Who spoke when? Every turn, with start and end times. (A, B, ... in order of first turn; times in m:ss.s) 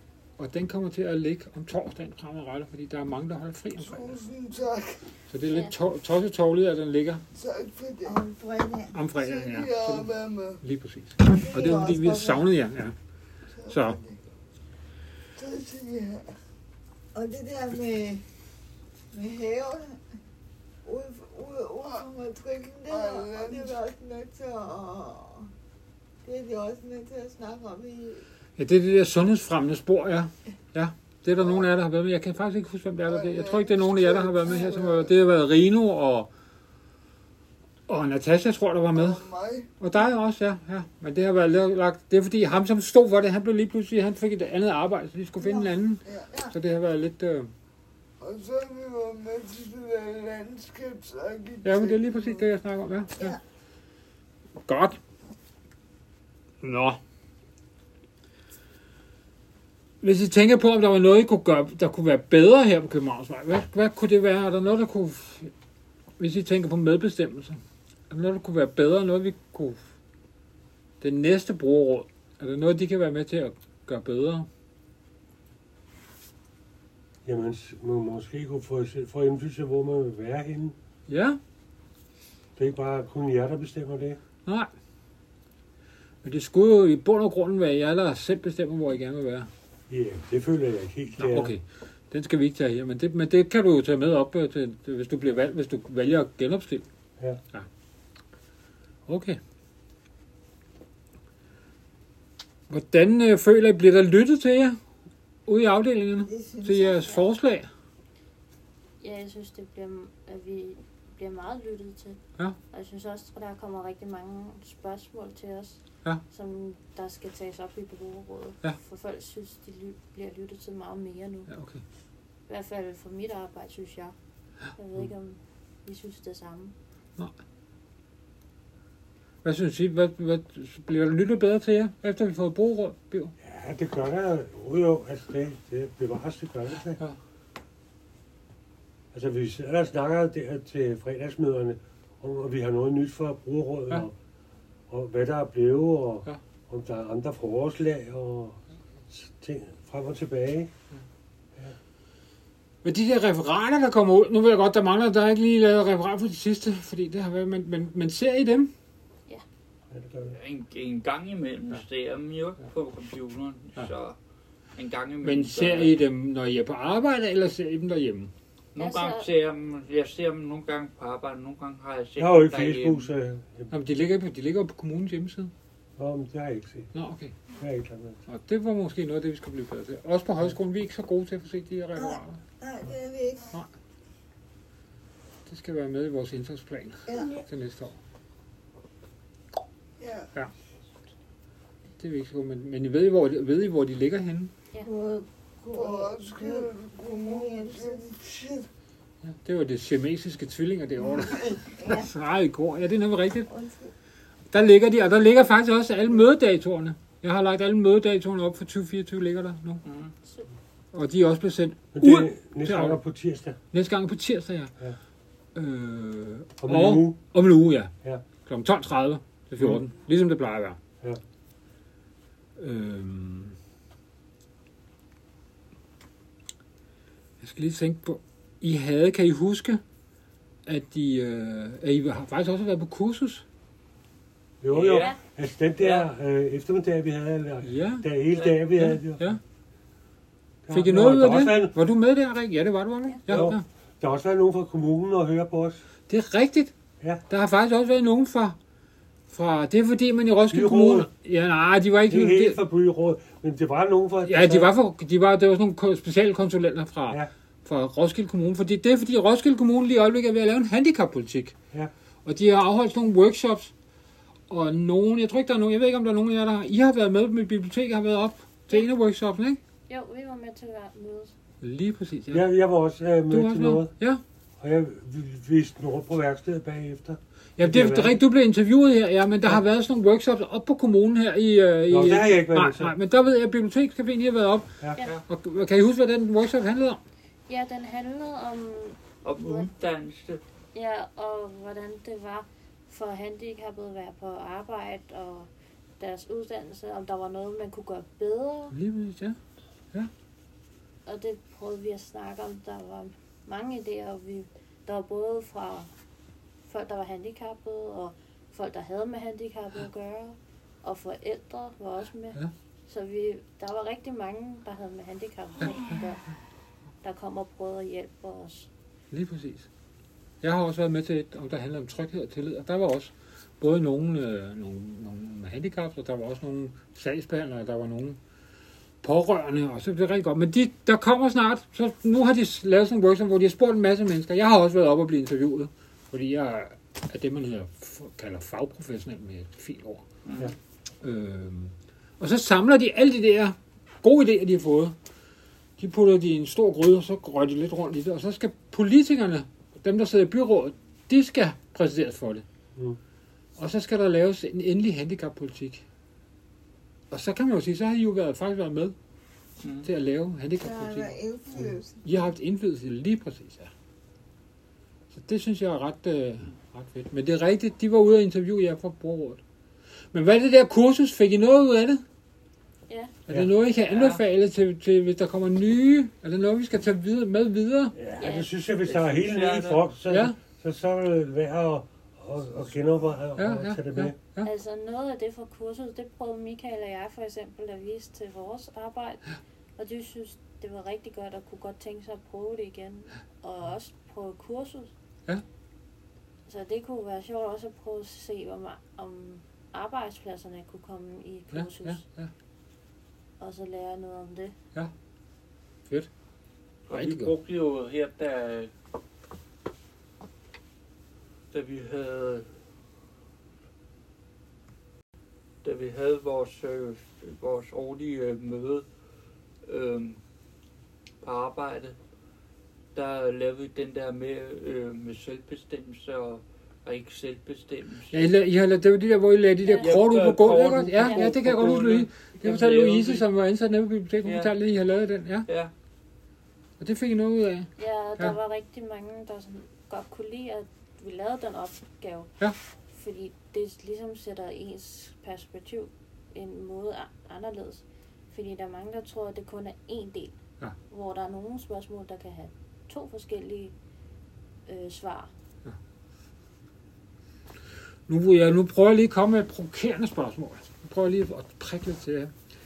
0:00.4-0:04.2 A
0:03.8-0:05.0 B
0:05.3-0:07.2 A
0:05.5-0:05.8 C
0:07.4-0:08.2 B
0:08.0-0:09.0 D
0:08.9-0:10.1 A
0:09.2-0:10.6 B
0:10.6-0:13.0 A
0:11.2-0:12.5 D
0:13.5-0:14.2 B
0:13.7-0:14.0 A
0:15.4-0:16.3 B
0:17.1-0:18.2 D
0:19.1-0:20.0 D
0:20.8-0:25.5 D
0:22.9-0:23.8 B
0:26.2-0:28.2 D
0:28.6-0:36.3 A
0:31.4-0:31.7 B
0:33.1-0:35.1 B
0:37.9-0:39.2 A
0:38.9-0:39.7 B
0:39.8-0:47.5 A
0:45.4-0:45.7 D
0:46.0-0:46.3 B
0:48.2-0:52.4 B
0:51.6-0:53.4 A
0:54.6-0:55.0 A
0:56.6-0:57.0 A
1:00.0-1:05.5 A
1:06.2-1:09.8 A
1:11.0-1:14.5 A
1:17.2-1:20.8 E
1:21.1-1:21.4 A
1:22.6-1:24.2 E
1:26.2-1:29.5 A
1:29.9-1:31.5 E
1:31.2-1:36.9 A
1:39.1-1:39.4 A
1:42.7-1:44.8 A
1:45.5-1:47.7 A
1:46.2-1:47.1 D
1:49.0-2:01.5 C
2:01.5-2:01.8 A
2:02.5-2:04.2 C
2:04.8-2:06.8 C
2:09.4-2:13.3 A
2:13.4-2:17.0 E
2:19.1-2:24.1 E
2:24.9-2:30.7 E
2:32.8-2:38.7 A
2:39.9-2:40.4 E
2:40.3-2:44.2 F
2:44.8-2:46.0 F
2:45.2-2:48.3 A
2:48.8-2:53.1 F
2:48.8-2:49.3 C
2:52.2-2:53.7 E
2:53.7-2:55.5 A
2:56.0-2:56.9 E
2:56.9-2:57.4 A
2:57.6-2:58.2 E
2:58.3-3:02.4 A
3:02.0-3:03.6 D
3:05.5-3:08.0 A
3:07.1-3:07.4 D
3:10.0-3:10.3 B
3:12.0-3:14.5 A
3:14.8-3:18.1 D
3:15.7-3:18.7 B
3:19.2-3:23.5 A
3:21.2-3:22.1 D
3:23.5-3:23.9 D
3:24.5-3:29.8 A
3:29.8-3:30.1 F
3:30.2-3:30.5 C
3:30.9-3:33.0 A
3:31.9-3:33.6 E
3:33.7-3:34.7 A
3:35.6-3:37.9 A
3:36.6-3:37.2 E
3:38.4-3:40.8 A
3:42.6-3:43.6 A
3:47.4-3:49.8 A
3:50.7-3:53.4 A
3:54.6-3:59.3 E
3:54.7-3:55.1 F
3:54.9-3:55.2 C
3:55.8-3:56.1 F
3:57.6-3:58.1 A
3:58.7-3:59.4 A
4:00.6-4:01.8 E
4:00.7-4:03.6 A
4:03.3-4:05.8 E
4:06.1-4:06.7 A
4:07.3-4:08.6 A
4:09.3-4:12.6 A
4:10.5-4:11.1 E
4:12.1-4:14.7 E
4:14.2-4:21.6 A
4:22.2-4:23.7 A
4:24.5-4:29.6 A
4:29.9-4:31.4 C
4:31.6-4:32.5 A
4:32.3-4:33.9 E
4:33.3-4:34.2 A
4:34.6-4:38.2 E
4:37.6-4:44.8 A
4:41.9-4:43.0 E
4:45.0-4:45.2 C
4:45.3-4:47.0 A
4:47.5-4:49.7 C
4:49.2-4:50.4 F
4:50.7-4:58.8 C
4:58.7-4:59.4 A
5:01.1-5:05.9 C
5:06.7-5:16.2 C
5:17.0-5:18.7 C
5:19.1-5:19.7 A
5:20.4-5:28.2 A
5:29.0-5:40.0 A
5:40.3-5:40.5 F
5:41.0-5:45.0 A
5:45.8-5:52.4 A
5:53.6-5:55.8 A
5:57.1-5:59.0 A
5:59.8-6:01.2 A
6:00.6-6:02.0 D
6:02.0-6:03.7 A
6:05.1-6:09.4 A
6:10.1-6:12.0 A
6:12.9-6:13.2 C
6:13.3-6:18.0 A
6:13.9-6:14.2 F
6:18.0-6:24.2 E
6:18.2-6:18.5 C
6:18.8-6:19.8 F
6:20.1-6:20.4 A
6:23.4-6:24.5 A
6:24.4-6:34.9 C
6:36.5-6:42.0 C
6:41.5-6:42.3 A
6:43.4-6:44.6 C
6:46.9-6:48.7 F
6:46.9-6:47.3 A
6:51.5-6:52.5 F
6:55.6-6:58.8 F
6:59.6-7:00.2 F
7:01.2-7:02.0 F
7:03.0-7:08.2 F
7:08.1-7:15.5 A
7:09.6-7:10.0 C
7:09.8-7:13.2 F
7:11.0-7:11.3 C
7:14.2-7:14.5 F
7:16.8-7:18.4 A
7:17.8-7:22.3 C
7:22.9-7:30.4 C
7:30.9-7:33.7 C
7:34.7-7:35.3 C
7:38.1-7:42.3 A